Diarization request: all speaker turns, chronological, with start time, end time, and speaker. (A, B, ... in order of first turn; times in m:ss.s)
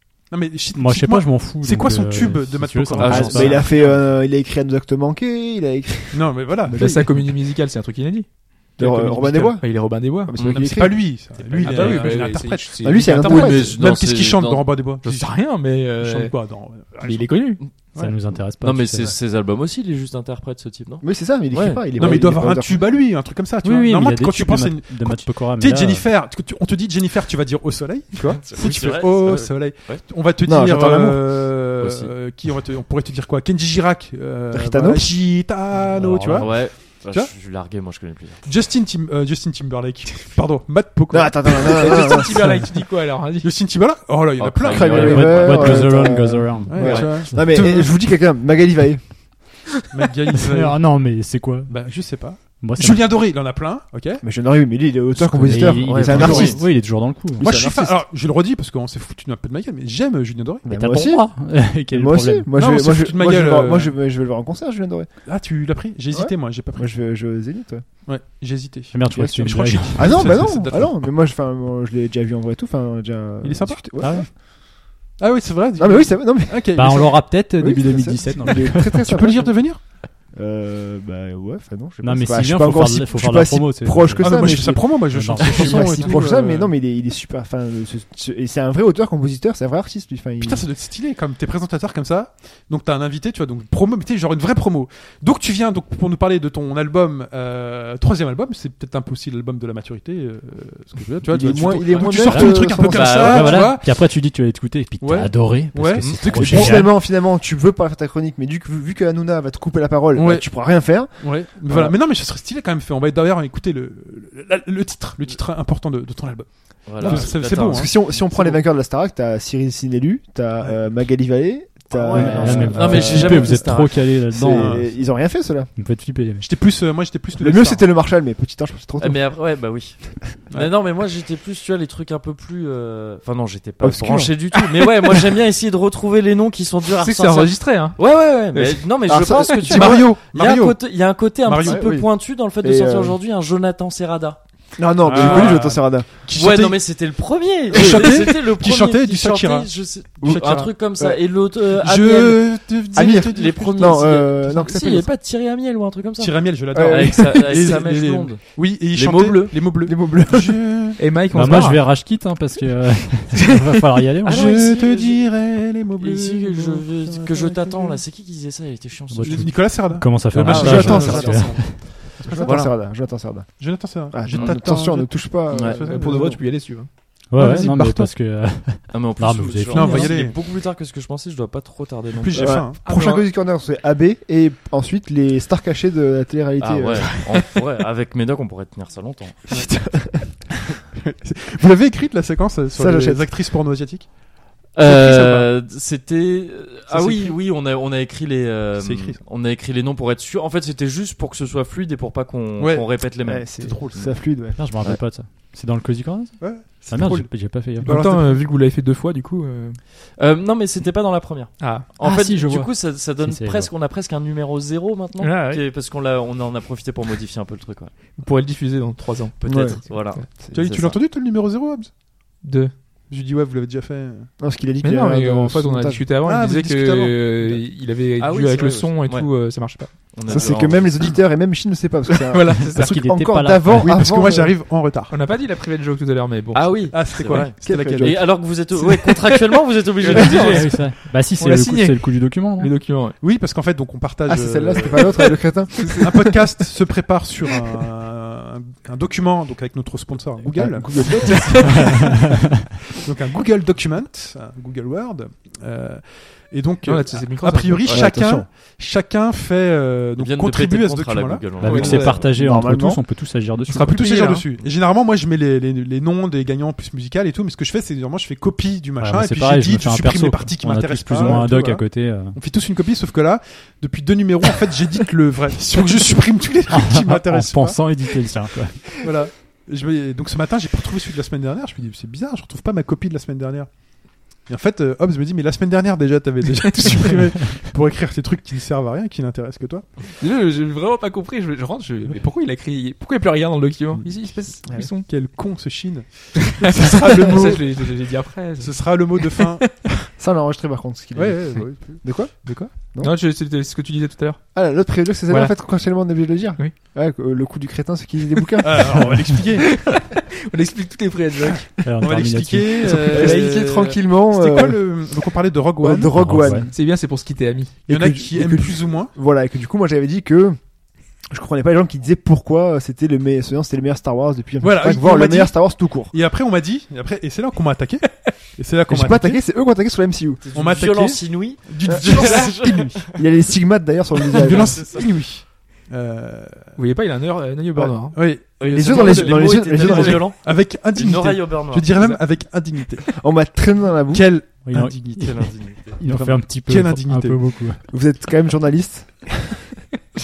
0:00.3-0:03.8 A
0:00.7-0:03.7 B
0:03.0-0:03.7 C
0:03.1-0:07.0 D
0:06.1-0:07.1 A
0:06.7-0:10.3 E
0:08.8-0:11.2 D
0:08.8-0:09.5 A
0:10.4-0:10.7 C
0:10.4-0:15.5 A
0:11.5-0:13.5 E
0:11.7-0:12.1 D
0:12.8-0:13.8 D
0:13.2-0:14.7 C
0:15.0-0:17.6 E
0:16.0-0:17.4 A
0:17.9-0:18.2 A
0:18.0-0:19.2 B
0:18.4-0:22.2 C
0:21.0-0:22.9 D
0:22.0-0:37.3 A
0:23.6-0:26.1 B
0:28.4-0:30.0 C
0:30.4-0:31.5 D
0:31.8-0:32.1 C
0:34.5-0:35.3 D
0:35.8-0:36.6 B
0:36.4-0:38.4 C
0:38.4-0:42.6 A
0:41.1-0:42.4 D
0:41.6-0:43.5 E
0:43.4-0:45.8 A
0:44.4-0:46.2 C
0:44.7-0:49.5 D
0:44.8-0:47.6 B
0:46.7-0:47.9 A
0:46.8-0:47.1 C
0:49.9-0:54.2 A
0:50.4-0:53.3 B
0:54.2-0:58.0 D
0:55.2-0:57.5 B
0:55.7-0:56.6 C
0:56.1-0:56.7 A
0:57.4-1:00.7 A
1:00.6-1:05.3 D
1:00.7-1:02.5 B
1:02.5-1:04.0 A
1:05.2-1:06.9 A
1:06.1-1:07.9 D
1:08.0-1:11.0 A
1:08.9-1:10.6 B
1:09.1-1:14.3 D
1:13.4-1:14.4 A
1:14.0-1:14.3 B
1:15.2-1:17.3 A
1:15.8-1:30.6 D
1:16.7-1:19.2 B
1:18.3-1:19.8 A
1:22.0-1:26.2 B
1:24.2-1:26.7 A
1:30.4-1:44.3 A
1:41.3-1:43.6 D
1:41.9-1:42.2 C
1:42.1-1:46.9 B
1:42.8-1:43.8 C
1:45.0-1:46.9 A
1:46.0-1:46.6 C
1:46.3-1:52.0 D
1:50.1-1:58.6 A
1:56.9-1:58.1 C
1:57.0-2:05.7 D
2:01.9-2:04.2 C
2:02.0-2:03.5 A
2:02.1-2:06.5 B
2:04.5-2:04.8 A
2:06.4-2:07.9 A
2:07.4-2:09.4 D
2:09.0-2:24.4 C
2:13.8-2:14.5 D
2:17.0-2:19.6 E
2:19.1-2:20.0 D
2:19.6-2:20.8 A
2:21.4-2:21.9 A
2:21.6-2:23.2 D
2:24.8-2:26.1 D
2:25.0-2:27.0 A
2:25.2-2:25.7 C
2:26.3-2:39.8 C
2:27.7-2:30.7 A
2:27.7-2:28.2 D
2:30.2-2:31.2 D
2:31.7-2:34.0 A
2:32.9-2:35.1 D
2:36.2-2:41.0 A
2:36.7-2:37.9 D
2:39.8-2:40.6 D
2:41.0-2:41.9 E
2:41.3-2:44.6 B
2:43.4-2:43.8 E
2:44.2-2:45.3 C
2:44.3-2:48.0 A
2:46.0-2:49.6 C
2:49.1-2:52.0 B
2:49.2-2:52.8 A
2:50.4-2:56.4 D
2:50.5-2:51.6 C
2:52.2-2:52.7 C
2:53.6-2:56.3 A
2:54.3-2:54.6 C
2:55.5-2:55.8 C
2:55.8-2:56.9 E
2:57.3-3:00.1 B
2:57.4-2:58.1 A
2:58.9-3:02.7 C
2:59.7-3:00.4 A
3:02.1-3:02.8 A
3:02.4-3:07.4 D
3:02.8-3:03.3 E
3:06.6-3:09.5 C
3:09.5-3:10.4 D
3:10.3-3:14.2 A
3:12.7-3:13.3 D
3:14.7-3:15.5 A
3:14.8-3:25.0 C
3:16.9-3:17.4 A
3:18.8-3:19.2 A
3:22.6-3:23.0 A
3:23.2-3:24.8 D
3:23.6-3:24.0 A
3:24.6-3:28.0 B
3:26.4-3:28.4 A
3:27.8-3:29.8 E
3:30.2-3:37.9 C
3:31.6-3:31.9 E
3:32.0-3:33.7 B
3:35.2-3:35.6 E
3:38.2-3:40.2 E
3:39.4-3:41.0 C
3:39.5-3:40.6 D
3:40.5-3:41.9 A
3:42.4-3:42.7 E
3:43.1-3:44.3 A
3:44.4-3:46.0 D
3:44.8-3:50.0 E
3:46.2-3:47.6 A
3:48.2-3:49.3 C
3:49.9-3:51.2 C
3:50.3-3:54.5 D
3:52.3-3:53.0 E
3:52.7-3:54.0 B
3:53.8-3:55.1 A
3:55.1-3:56.8 E
3:56.5-4:00.8 C
3:56.9-3:58.3 A
3:57.6-3:58.5 D
4:00.0-4:00.6 A
4:00.0-4:03.2 E
4:00.2-4:02.8 B
4:03.2-4:05.3 A
4:04.3-4:06.4 D
4:04.7-4:05.1 C
4:06.0-4:12.3 A
4:10.4-4:12.0 D
4:11.2-4:12.0 E
4:11.7-4:12.7 B
4:12.9-4:22.1 A
4:16.8-4:17.9 E
4:17.9-4:18.5 D
4:20.2-4:22.3 C
4:21.6-4:24.0 B
4:21.6-4:22.2 E
4:22.2-4:23.1 D
4:23.7-4:24.5 E
4:23.7-4:37.9 A
4:29.0-4:32.4 B
4:36.7-4:39.1 B
4:38.9-4:43.8 A
4:44.3-4:49.9 A
4:50.2-4:55.1 E
4:55.0-4:57.9 A
4:56.6-4:59.9 E
4:56.9-4:57.6 D
4:58.6-4:59.6 A
5:00.2-5:03.1 D
5:01.1-5:02.0 A
5:02.4-5:04.4 E
5:04.5-5:09.0 D
5:05.3-5:05.5 E
5:08.6-5:09.7 A
5:09.0-5:09.3 B
5:09.6-5:11.7 E
5:11.8-5:13.3 B
5:12.0-5:16.3 A
5:12.9-5:13.7 E
5:13.1-5:15.1 D
5:15.8-5:16.7 D
5:16.1-5:16.7 B
5:16.7-5:17.7 E
5:17.9-5:19.1 A
5:17.9-5:20.6 D
5:21.3-5:26.1 D
5:24.6-5:29.4 A
5:28.9-5:30.4 D
5:30.4-5:33.2 C
5:30.5-5:32.9 A
5:31.9-5:34.9 D
5:34.4-5:36.8 A
5:34.5-5:35.1 C
5:36.8-5:39.6 E
5:37.8-5:40.3 D
5:38.1-5:43.2 A
5:38.6-5:42.2 C
5:43.2-5:44.3 D
5:44.1-5:45.4 A
5:44.6-5:47.8 B
5:45.1-5:46.0 C
5:46.0-5:47.5 A
5:47.9-5:49.7 D